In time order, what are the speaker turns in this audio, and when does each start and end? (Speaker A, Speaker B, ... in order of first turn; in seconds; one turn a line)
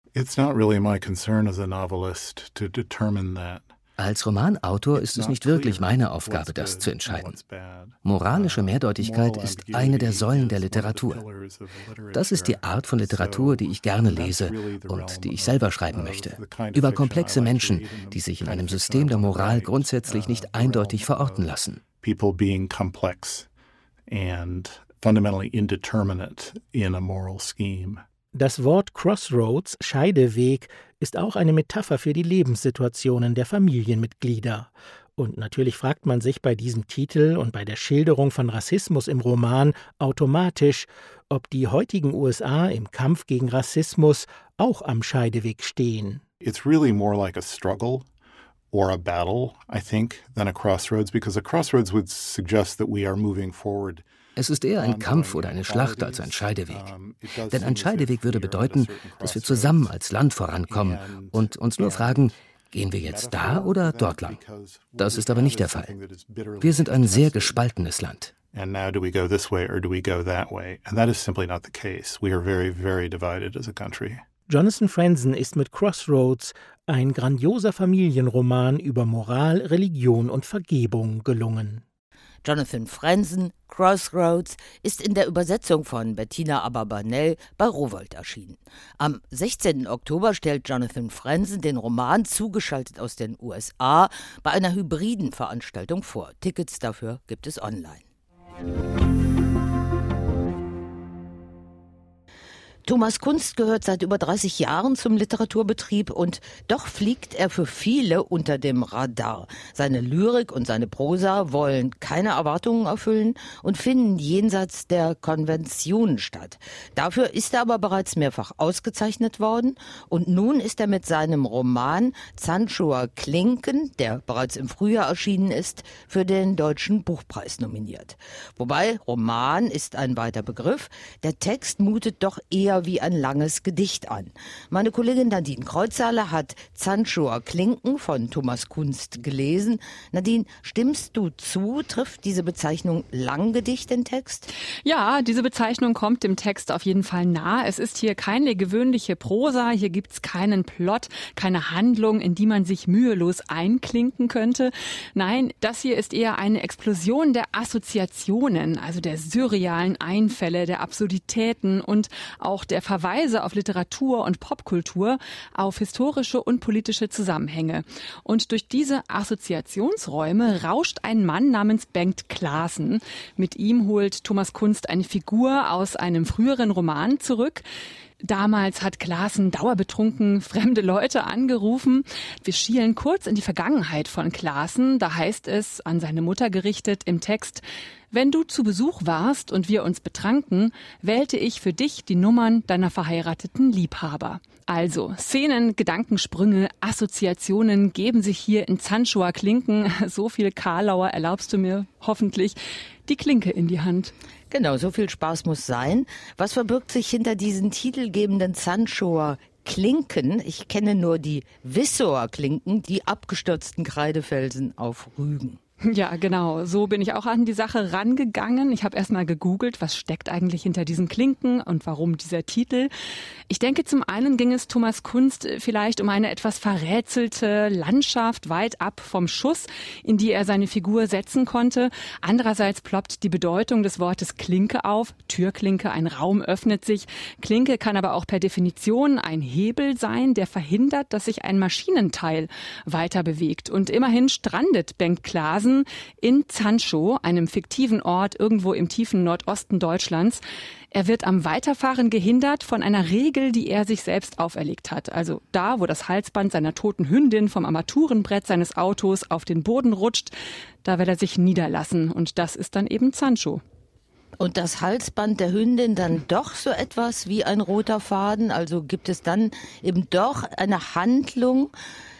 Speaker A: 0.1-3.7
Speaker B: 4.0-7.4
Speaker A: 4.9-23.5
Speaker B: 8.0-11.2
Speaker B: 12.1-21.8
Speaker A: 24.1-28.0
Speaker C: 28.3-46.2
Speaker A: 46.4-48.1
Speaker A: 48.7-54.0
Speaker B: 54.4-56.9
Speaker A: 54.8-60.0
Speaker B: 57.5-64.4
Speaker A: 60.6-62.3
Speaker A: 62.9-67.6
Speaker B: 65.0-65.9
Speaker B: 66.6-68.3
Speaker A: 68.5-74.2
Speaker C: 74.5-81.8
Speaker D: 82.4-98.0
Speaker D: 102.8-144.5
Speaker E: 144.8-177.6
Speaker E: 178.2-204.1
Speaker D: 204.5-215.6
Speaker E: 215.8-222.9
Speaker E: 223.5-250.4
Speaker E: 250.9-260.3
Speaker E: 260.8-263.6
Speaker D: 264.4-271.7